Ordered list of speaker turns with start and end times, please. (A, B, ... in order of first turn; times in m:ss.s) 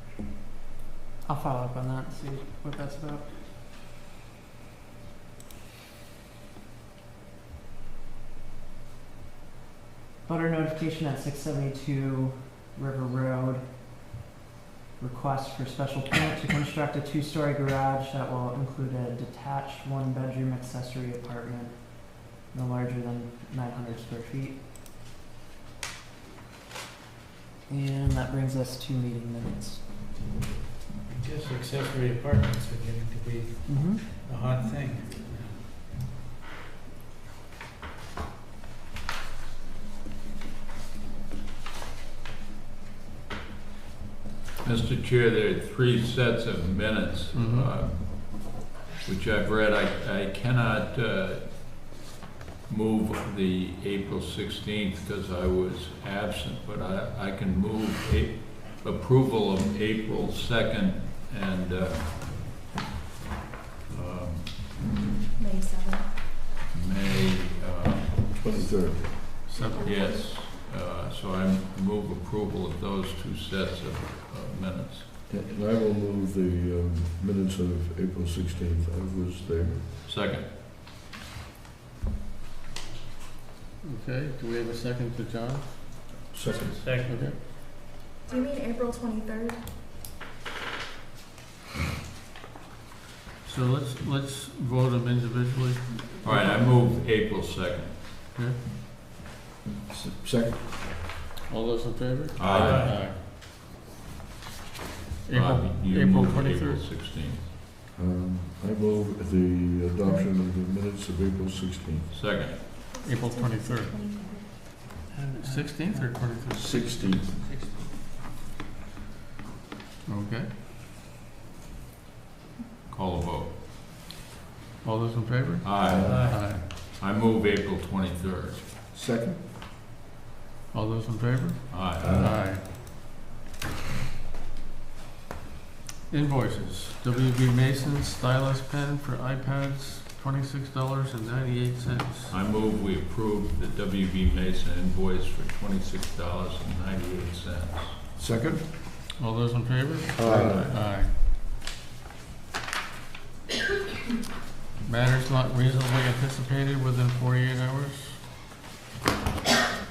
0:01.2-0:03.3 A
0:10.2-0:13.8 A
0:15.0-0:24.6 A
0:27.7-0:30.2 A
0:31.0-0:35.7 B
0:33.6-0:34.0 A
0:44.6-0:52.0 C
0:47.3-0:47.7 D
0:52.7-1:02.6 C
1:03.9-1:04.8 C
1:05.4-1:06.1 E
1:06.7-1:08.4 C
1:08.4-1:09.2 F
1:09.5-1:09.9 D
1:09.5-1:10.3 E
1:09.8-1:15.1 C
1:15.3-1:19.8 F
1:20.0-1:20.5 C
1:23.8-1:25.7 D
1:26.3-1:26.8 F
1:26.8-1:27.1 B
1:27.0-1:27.4 D
1:28.3-1:29.6 E
1:33.4-1:36.6 D
1:36.2-1:38.0 C
1:39.9-1:41.0 F
1:41.5-1:43.2 D
1:42.4-1:43.0 C
1:45.3-1:46.9 D
1:45.3-1:47.4 C
1:47.9-1:52.1 F
1:52.1-1:52.7 C
1:52.8-1:54.5 E
1:53.0-1:53.9 D
1:55.1-1:56.2 A
1:55.4-1:57.2 D
1:56.5-1:57.2 F
2:00.1-2:00.5 D
2:02.9-2:03.5 C
2:04.8-2:06.7 D
2:05.6-2:08.6 C
2:05.8-2:06.3 F
2:05.9-2:06.4 B
2:08.9-2:09.4 F
2:10.7-2:12.6 D
2:11.7-2:12.3 C
2:12.0-2:12.4 F
2:16.1-2:22.3 D
2:22.3-2:28.0 C
2:28.2-2:28.6 F
2:29.2-2:31.1 D
2:30.2-2:30.7 F
2:30.3-2:30.7 C
2:34.8-2:38.2 D